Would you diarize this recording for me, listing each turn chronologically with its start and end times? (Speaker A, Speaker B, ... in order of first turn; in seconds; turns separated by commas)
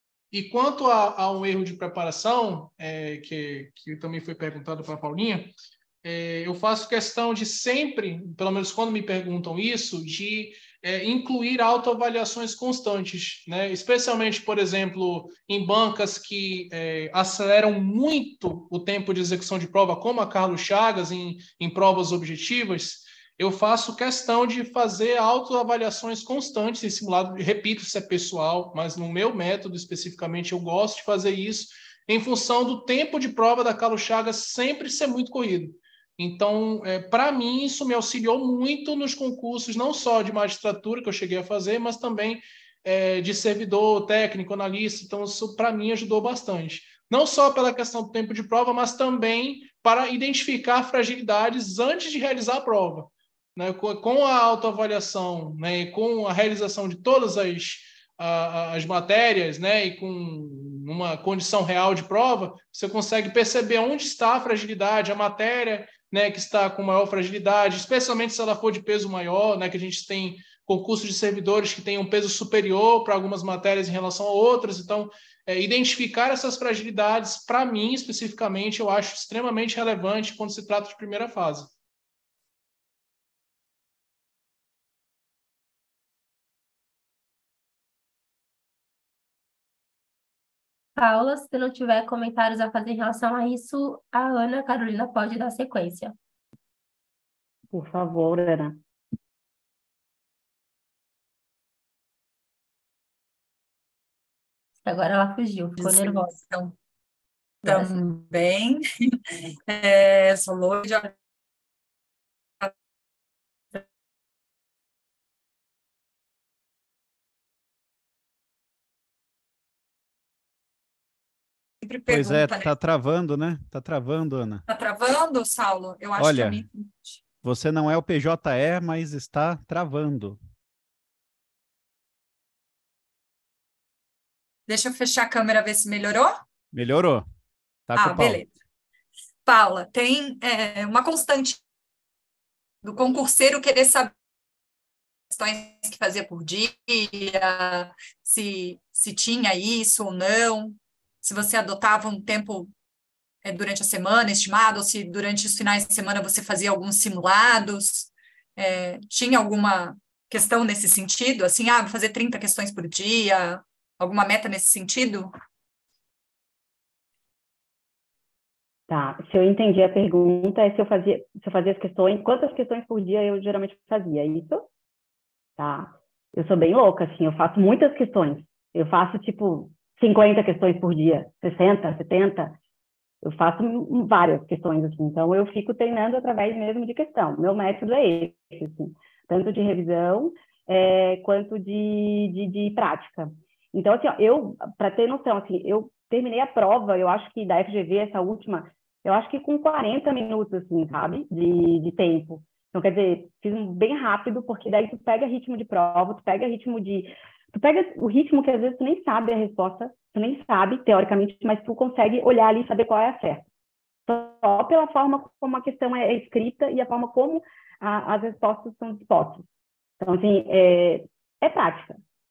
Speaker A: 0.3-81.7, Speaker B: 91.0-96.1, Speaker C: 97.7-98.8, Speaker B: 104.8-106.3, Speaker D: 105.8-106.7, Speaker D: 107.6-108.8, Speaker B: 107.6-107.9, Speaker D: 109.7-111.1, Speaker D: 121.8-122.7, Speaker E: 122.1-124.6, Speaker D: 124.7-127.2, Speaker E: 126.2-126.6, Speaker E: 127.4-130.4, Speaker D: 134.7-136.4, Speaker E: 136.7-137.2, Speaker E: 137.9-138.4, Speaker D: 137.9-138.5, Speaker D: 139.4-141.6, Speaker D: 142.8-144.1, Speaker D: 145.3-152.7, Speaker D: 153.4-165.3, Speaker C: 168.9-174.6, Speaker C: 175.6-182.6, Speaker C: 183.2-213.4, Speaker C: 214.1-219.4, Speaker C: 220.0-222.0